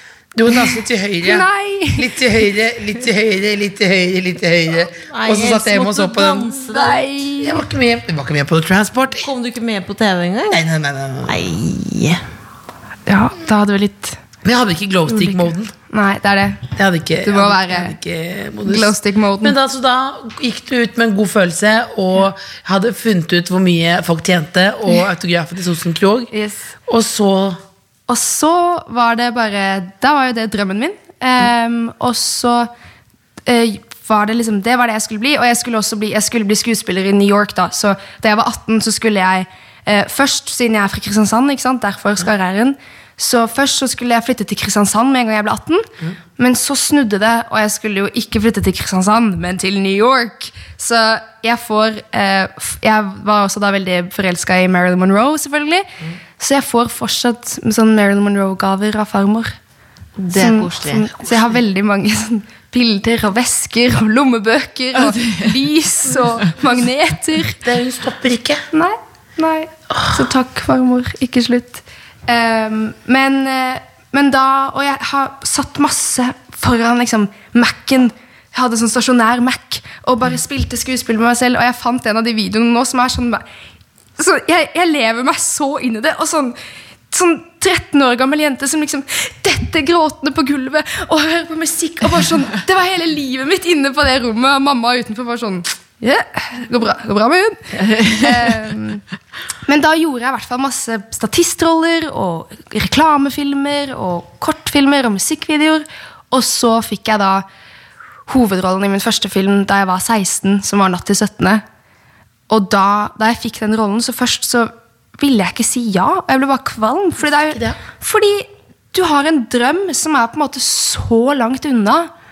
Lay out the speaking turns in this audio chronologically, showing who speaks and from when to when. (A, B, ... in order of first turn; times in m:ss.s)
0:00.3-0:06.5 A
0:01.2-0:02.1 B
0:05.0-0:07.3 C
0:06.5-0:07.6 B
0:07.4-0:09.3 A
0:09.1-0:10.6 C
0:10.5-0:11.4 A
0:11.2-0:12.2 C
0:13.1-0:14.2 B
0:14.4-0:15.7 A
0:15.1-0:16.7 B
0:16.8-0:26.3 A
0:17.2-0:17.9 B
0:18.6-0:19.5 B
0:26.3-0:26.7 B
0:26.9-0:27.6 A
0:28.1-0:32.7 B
0:33.4-0:59.5 B
1:00.2-1:01.3 C
1:00.3-1:07.6 B
1:05.0-1:05.5 C
1:07.6-1:08.6 A
1:08.7-1:23.4 B
1:09.9-1:10.3 A
1:24.2-1:26.6 B
1:27.1-1:39.0 B
1:37.9-1:38.3 C
1:39.6-1:47.4 B
1:48.3-1:51.6 B
1:52.5-2:02.1 B
1:57.5-1:57.8 A